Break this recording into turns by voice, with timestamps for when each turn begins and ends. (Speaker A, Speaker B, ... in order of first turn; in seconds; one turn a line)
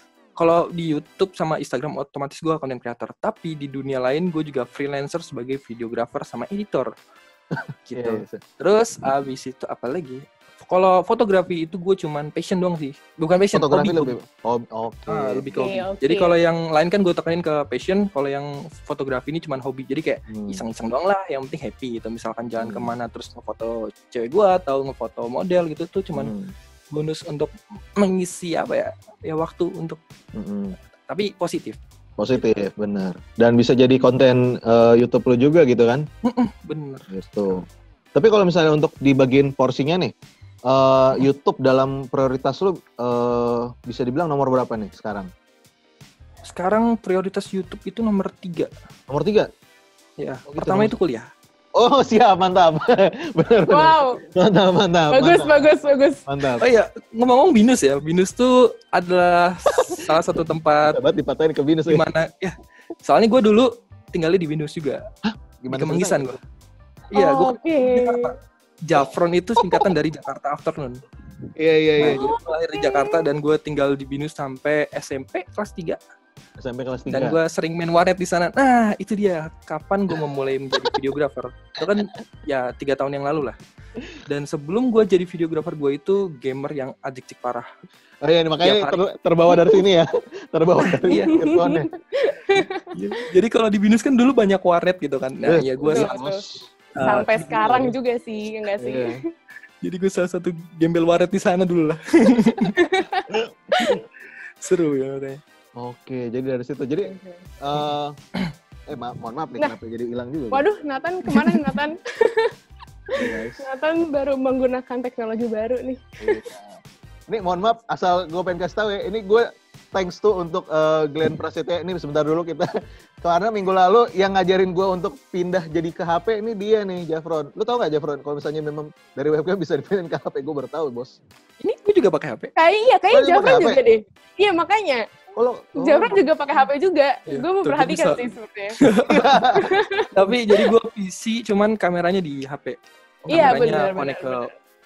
Speaker A: 0.3-6.9
Speaker A: 7.8-14.1
Speaker B: 7.9-8.4
Speaker B: 13.5-15.6
Speaker A: 15.1-26.3
Speaker C: 15.6-16.3
Speaker B: 20.3-20.6
Speaker B: 22.6-22.9
Speaker B: 26.1-26.5
Speaker A: 26.9-30.0
Speaker B: 30.4-30.8
Speaker A: 31.1-31.8
Speaker B: 32.2-36.0
Speaker A: 36.2-37.6
Speaker B: 37.1-37.6
Speaker B: 38.1-40.1
Speaker B: 40.7-45.3
Speaker A: 46.4-48.7
Speaker B: 49.1-49.5
Speaker A: 50.2-51.3
Speaker B: 50.5-50.9
Speaker B: 51.8-55.7
Speaker C: 53.7-54.2
Speaker C: 55.1-56.2
Speaker B: 56.3-56.6
Speaker A: 56.6-61.0
Speaker B: 60.9-62.1
Speaker A: 61.9-65.0
Speaker B: 65.3-66.3
Speaker A: 65.7-66.4
Speaker A: 67.1-71.0
Speaker C: 67.1-68.3
Speaker B: 71.5-72.2
Speaker A: 72.0-76.0
Speaker C: 72.1-73.2
Speaker B: 76.6-77.4
Speaker A: 77.1-83.6
Speaker A: 84.2-87.7
Speaker B: 88.2-91.9
Speaker A: 88.6-89.0
Speaker A: 90.8-91.5
Speaker C: 91.2-92.8
Speaker A: 92.9-96.2
Speaker B: 95.5-97.9
Speaker C: 95.8-96.4
Speaker A: 97.0-97.5
Speaker C: 97.0-99.2
Speaker B: 98.8-99.1
Speaker A: 99.8-102.7
Speaker C: 102.8-104.0
Speaker A: 103.8-104.0
Speaker A: 104.6-105.4
Speaker B: 105.8-108.1
Speaker C: 107.0-107.4
Speaker B: 108.9-110.7
Speaker C: 110.5-112.5
Speaker A: 111.3-111.6
Speaker B: 113.1-113.6
Speaker C: 113.1-116.0
Speaker B: 116.2-122.7
Speaker B: 123.2-131.2
Speaker A: 131.6-132.5
Speaker C: 132.6-135.0
Speaker B: 133.1-133.8
Speaker B: 135.3-136.3
Speaker C: 135.8-138.8
Speaker A: 137.3-139.4
Speaker B: 139.1-139.6
Speaker C: 139.5-140.1
Speaker A: 140.1-144.5
Speaker B: 143.2-143.5
Speaker C: 143.3-144.5